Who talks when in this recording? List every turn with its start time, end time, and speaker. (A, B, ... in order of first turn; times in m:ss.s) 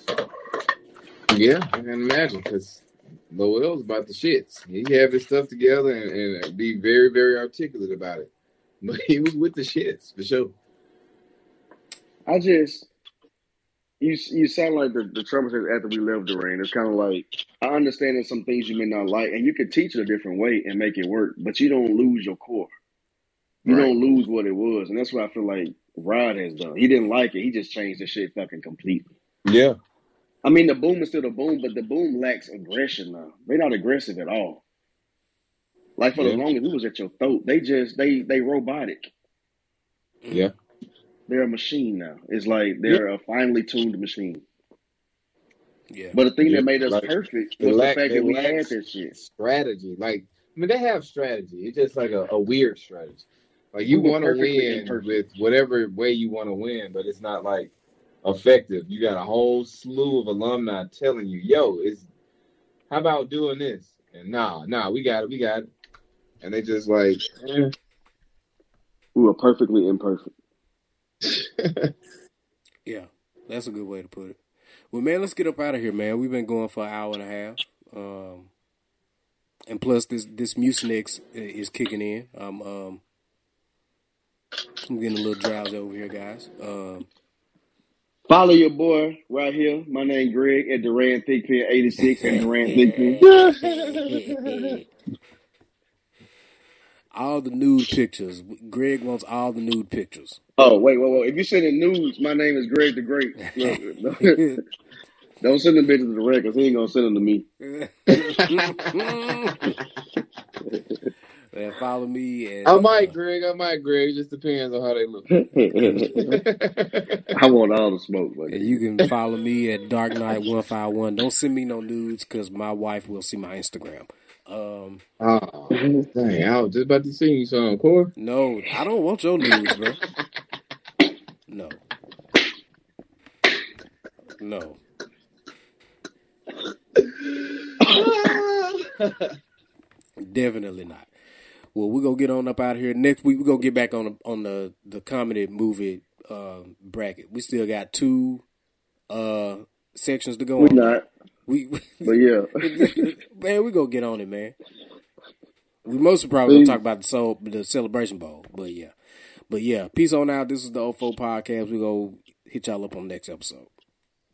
0:01.3-0:08.3 A
0:08.8-0:10.5 A
0:12.3-0:12.9 B
0:14.0-0:22.7 B
0:23.6-0:23.9 A
0:23.7-0:29.1 B
0:29.4-0:29.7 A
0:30.4-0:34.6 B
0:36.0-0:39.1 B
0:36.1-0:36.4 A
0:40.2-0:40.5 C
0:41.3-0:44.4 B
0:45.9-0:46.2 C
0:46.1-0:49.1 B
0:46.4-0:57.7 A
0:53.9-0:55.2 B
0:58.2-1:02.0 A
1:02.9-1:05.7 A
1:06.4-1:07.7 A
1:09.2-1:10.3 B
1:11.2-1:11.9 A
1:12.8-1:14.4 C
1:14.9-1:18.5 C
1:19.7-1:23.0 C
1:24.9-1:27.1 C
1:28.3-1:33.2 B
1:32.1-1:34.8 C
1:33.2-1:34.7 A
1:37.1-1:40.4 C
1:40.6-1:44.4 B
1:43.4-1:44.6 C
1:45.4-1:47.5 B
1:47.6-1:49.7 C
1:48.1-1:48.9 A
1:50.6-1:51.0 B
1:51.5-1:53.1 C
1:52.6-1:55.3 A
1:55.3-1:56.4 B
1:55.8-1:56.1 C
1:56.2-1:57.3 A
1:57.3-1:58.8 B
1:58.5-2:05.0 C
2:05.2-2:08.1 A
2:05.7-2:06.0 B
2:08.2-2:10.0 C
2:11.5-2:11.8 C
2:14.4-2:14.8 C
2:17.0-2:19.3 A
2:17.8-2:18.1 B
2:20.2-2:21.1 C
2:21.7-2:28.4 C
2:29.1-2:34.6 C
2:30.6-2:31.1 B
2:32.0-2:33.0 B
2:35.8-2:38.9 C
2:36.5-2:36.8 B
2:39.5-2:43.7 C